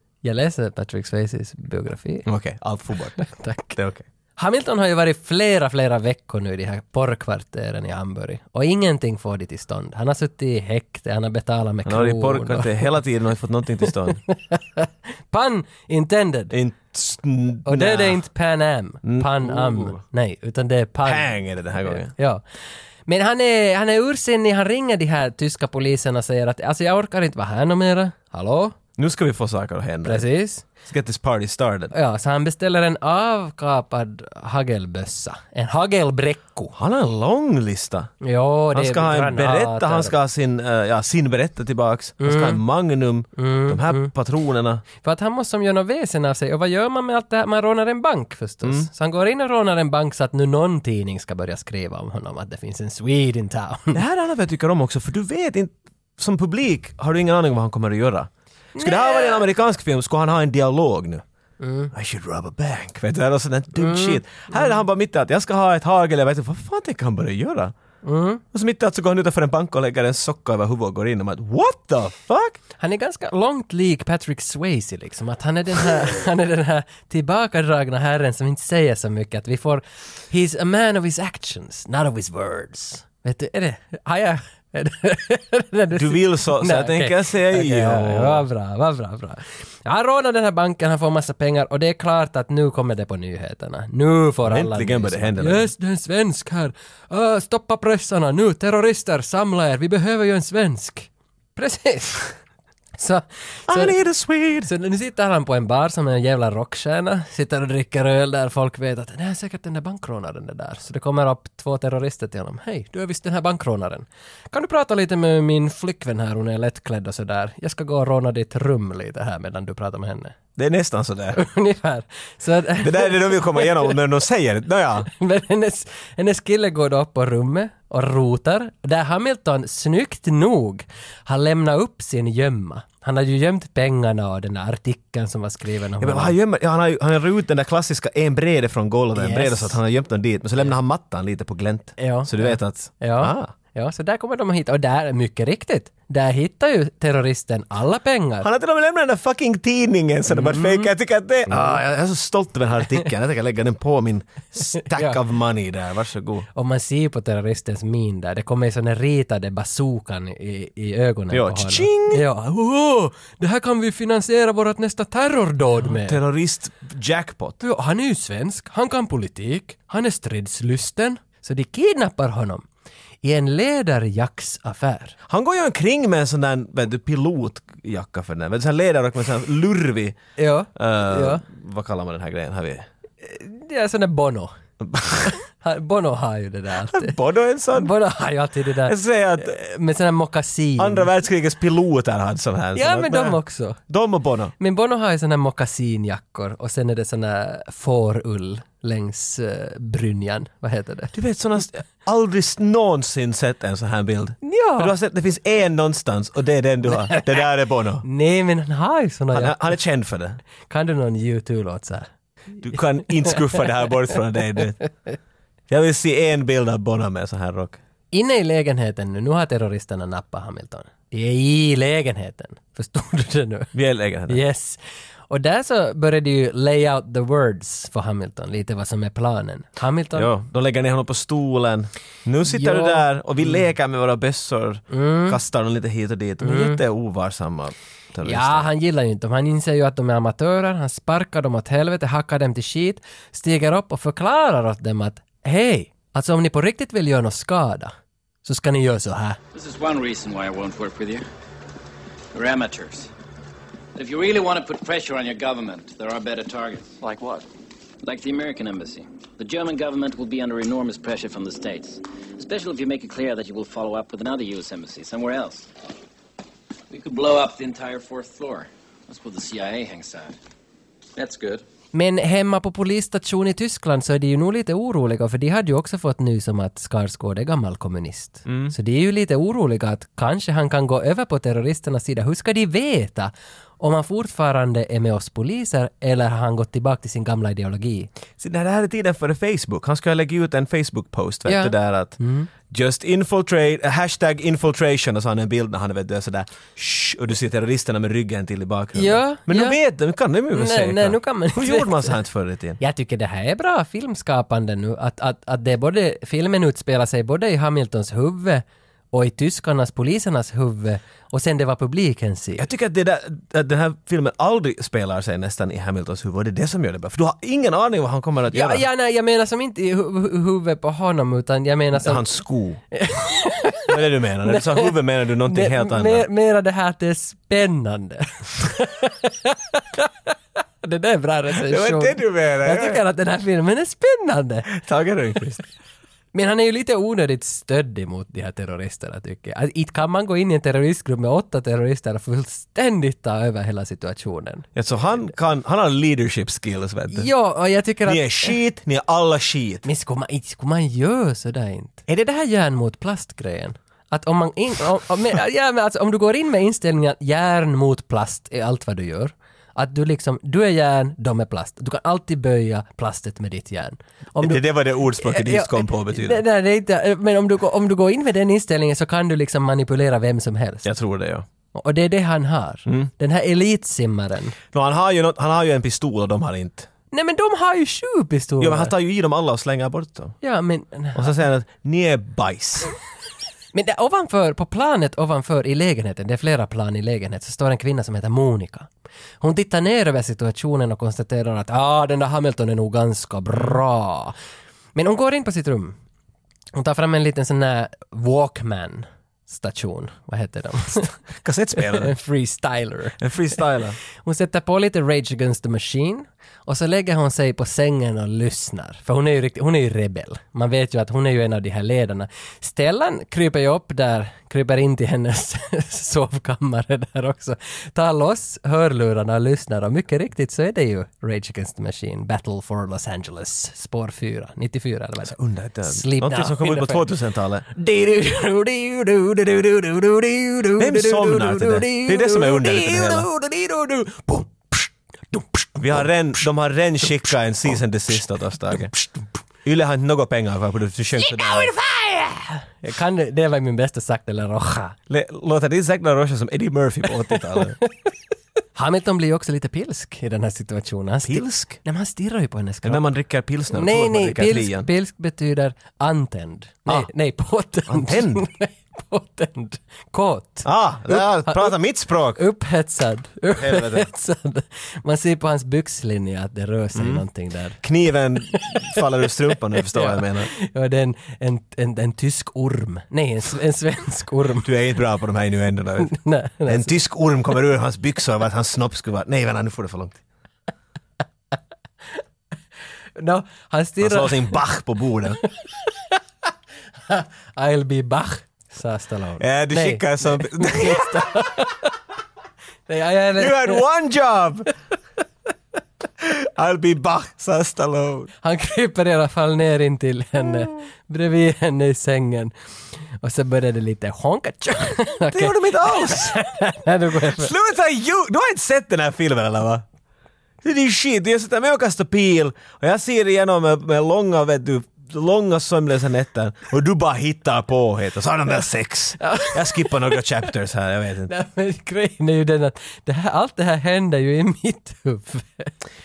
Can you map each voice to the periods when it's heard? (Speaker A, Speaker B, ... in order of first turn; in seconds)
Speaker A: 0.2-2.3, 3.2-3.8, 4.4-12.9, 13.8-16.5, 17.7-22.4, 23.1-28.8, 30.0-30.6, 31.9-36.7, 38.2-40.2, 42.2-42.6, 43.4-44.1, 45.0-54.0, 58.8-59.4, 61.6-61.9, 63.8-64.8, 68.0-68.4, 72.8-102.3, 103.0-104.0, 104.6-120.4, 121.3-124.0, 125.1-136.3, 139.1-139.8, 142.0-148.5, 150.3-150.9, 151.5-151.8, 154.9-155.2, 156.6-166.2, 167.6-172.7, 173.2-175.2, 180.4-181.4, 183.2-184.5, 185.3-187.2, 187.7-191.1, 192.7-193.8, 194.6-201.1, 204.4-204.9, 206.9-207.4, 208.0-209.7, 210.7-212.1, 218.1-223.7, 224.3-230.3, 232.5-233.6, 234.9-235.4, 236.4-236.8, 238.2-249.4, 271.9-288.1, 291.4-292.5, 298.9-299.8, 300.5-302.2, 302.8-312.6, 318.5-322.3, 322.9-324.9, 325.4-334.7, 336.3-344.7, 347.1-348.6, 349.8-370.9, 371.7-374.6, 377.1-378.9, 380.4-381.4, 383.7-388.9, 389.4-394.4, 394.9-396.0, 396.7-401.1, 401.8-403.6, 404.1-427.1, 427.7-436.1, 441.2-445.0, 448.8-453.1, 453.7-461.8, 462.4-467.8, 468.5-474.7, 476.0-476.9, 483.2-484.6, 485.4-486.2, 487.1-491.9, 492.9-493.8, 498.4-502.5, 503.2-507.5, 519.2-520.2, 521.3-525.8
Speaker B: 2.2-3.2, 3.7-4.0, 11.8-14.2, 16.5-18.2, 19.0-20.0, 21.1-22.1, 29.0-30.3, 30.8-31.9, 36.8-38.1, 38.7-44.8, 48.6-48.9, 53.9-61.2, 61.9-67.7, 68.5-72.6, 85.9-88.5, 94.5-95.7, 103.7-104.7, 120.6-121.4, 122.8-125.1, 136.0-143.5, 148.4-156.5, 161.3-162.2, 165.9-167.6, 175.3-180.2, 180.8-182.9, 184.8-185.4, 186.8-187.9, 188.8-189.6, 190.8-193.4, 193.9-194.5, 201.1-208.1, 209.3-210.4, 212.6-214.8, 215.7-217.8, 223.7-224.4, 230.1-238.7, 278.5-278.8, 288.4-302.8, 312.6-318.8, 321.9-322.8, 323.9-326.3, 331.7-333.0, 334.7-335.6, 344.8-347.3, 348.1-349.9, 364.4-366.4, 370.9-371.5, 374.7-376.9, 378.6-380.4, 381.1-382.9, 401.4-402.1, 403.2-404.0, 425.3-427.7, 430.8-433.3, 435.8-438.9, 439.6-441.7, 445.1-447.8, 451.3-451.8, 452.8-454.9, 457.9-458.5, 460.6-462.4, 463.6-464.1, 466.9-467.2, 467.8-470.5, 474.6-476.1, 476.7-480.2, 484.0-485.4, 489.4-491.3, 493.4-494.7, 496.2-498.3, 505.3-506.4, 507.1-509.8, 510.6-521.3
Speaker C: 249.5-251.2, 252.3-253.1, 253.9-257.0, 258.0-265.7, 266.9-270.4, 271.2-271.6